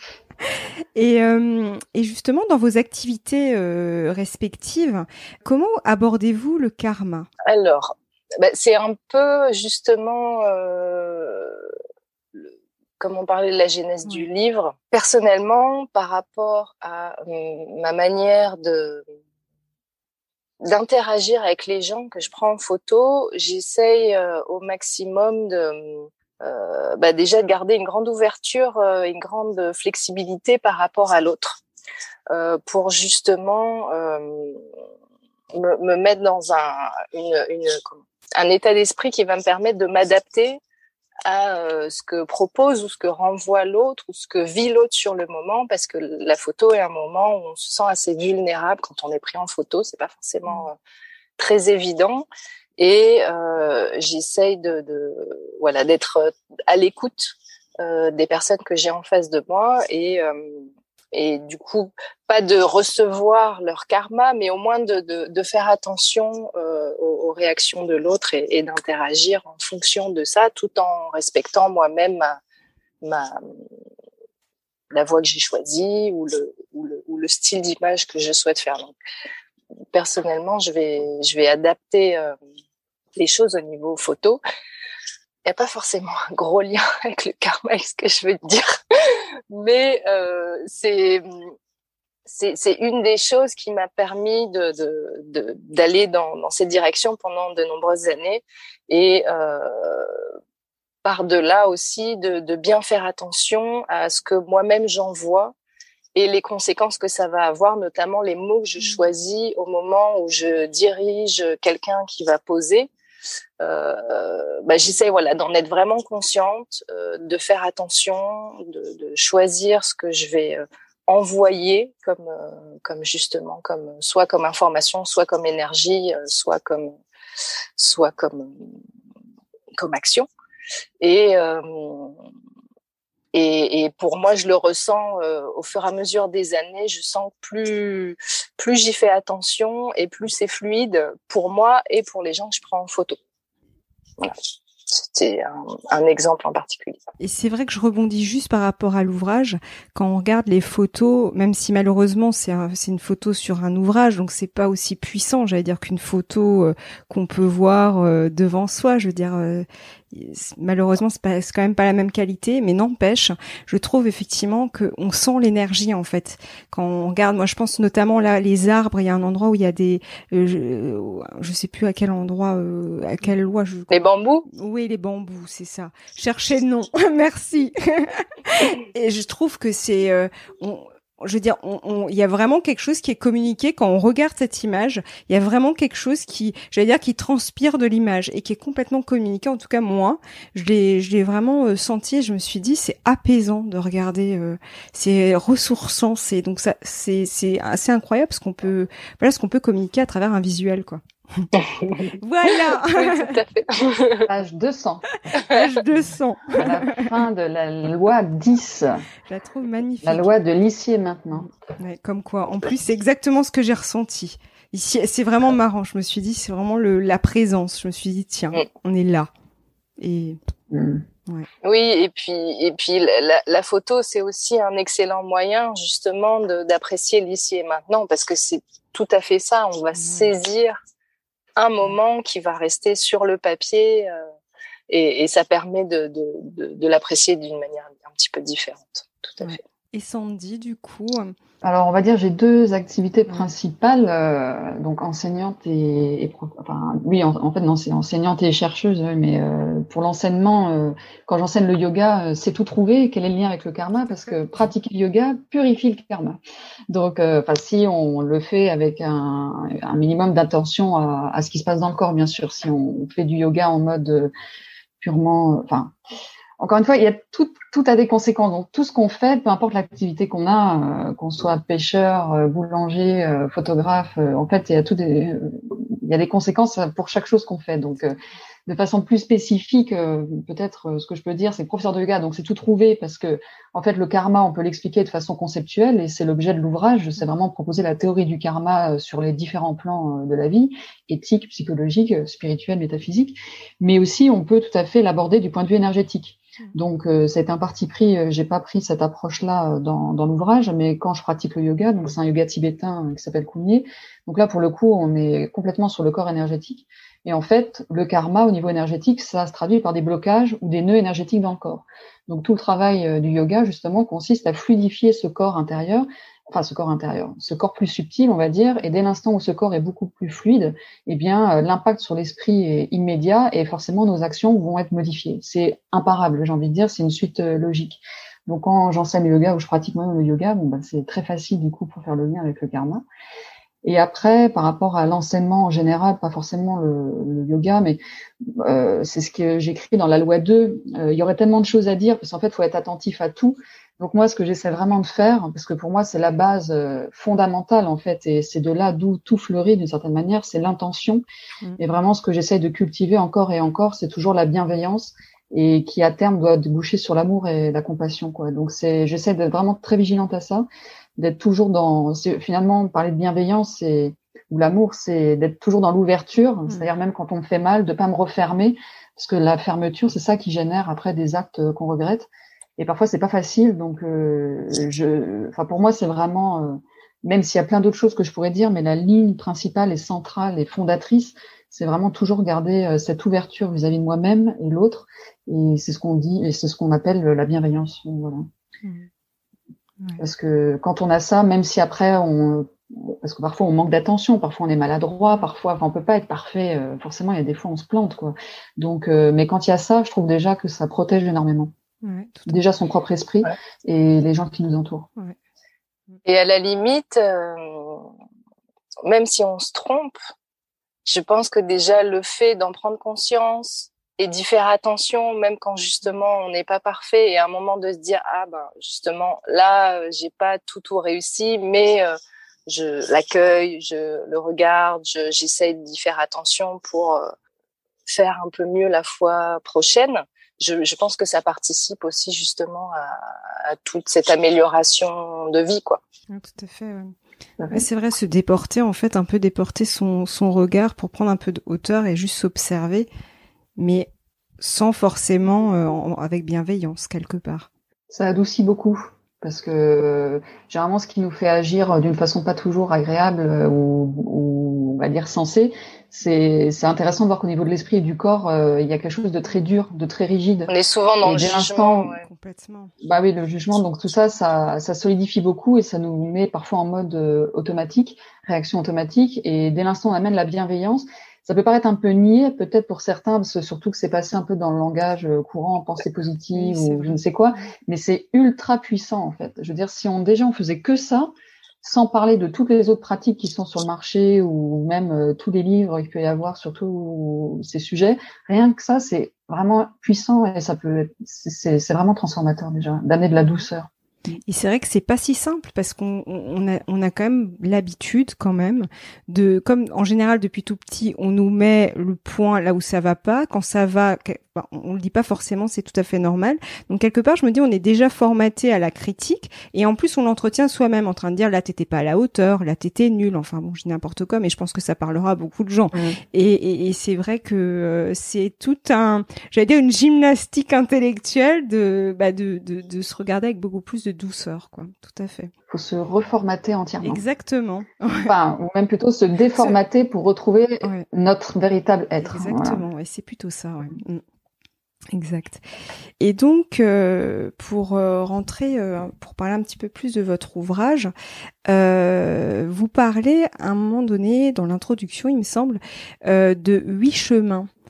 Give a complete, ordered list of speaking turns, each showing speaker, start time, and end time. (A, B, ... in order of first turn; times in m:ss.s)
0:00.4-0:07.3 A
0:07.4-0:11.8 B
0:12.4-0:19.0 B
0:20.6-0:31.6 B
0:32.3-0:34.6 B
0:35.5-0:40.6 B
0:41.3-0:50.8 B
0:51.4-0:52.3 B
0:52.8-1:12.4 B
1:13.0-1:13.4 B
1:14.9-1:19.0 B
1:19.9-1:22.3 B
1:23.2-1:24.4 B
1:25.4-1:31.5 B
1:32.3-1:40.3 B
1:41.0-1:45.5 B
1:46.2-1:52.9 B
1:48.8-1:49.1 A
1:53.6-2:07.0 B
2:07.8-2:08.5 B
2:09.8-2:10.3 B
2:11.0-2:12.2 B
2:13.3-2:23.2 B
2:24.9-2:27.0 B
2:27.2-3:21.5 A
2:53.9-2:54.5 B
3:21.6-3:24.3 B
3:22.2-3:23.4 A
3:24.3-3:25.0 C
3:25.3-3:27.1 A
3:26.5-3:29.0 C
3:29.3-3:30.3 A
3:30.0-3:31.5 C
3:31.3-3:39.3 A
3:40.0-3:40.4 A
3:40.7-3:41.0 C
3:41.6-3:50.8 B
3:50.0-3:50.3 A
3:51.6-3:54.2 B
3:54.9-3:59.6 B
3:59.4-4:01.4 A
4:01.6-4:16.4 C
4:14.0-4:14.7 A
4:16.9-4:24.3 C
4:25.0-4:25.9 C
4:26.6-4:38.2 C
4:38.7-5:33.0 C
5:33.8-5:51.2 C
5:51.8-6:28.4 C
6:30.2-6:41.7 C
6:42.0-6:42.6 A
6:42.5-6:45.1 C
6:46.2-6:48.1 B
6:49.0-6:50.2 B
6:51.1-7:02.2 B
7:02.7-7:07.3 B
7:08.1-7:16.0 B
7:16.3-7:17.2 A
7:17.6-7:17.8 C
7:17.7-7:23.1 A
7:23.8-7:24.1 A
7:24.6-7:27.7 A
7:28.1-7:40.7 C
7:40.7-7:42.2 B
7:41.2-7:42.2 C
7:42.2-7:42.9 A
7:43.0-8:01.3 C
7:56.5-7:57.7 A
8:01.8-8:13.9 C
8:14.5-8:45.5 A
8:35.9-8:36.2 C
8:45.7-8:47.2 C
8:47.0-8:48.3 A
8:48.2-8:52.8 C
8:52.2-8:54.2 A
8:55.1-8:55.6 A
8:56.2-9:01.1 A
9:01.7-9:07.7 A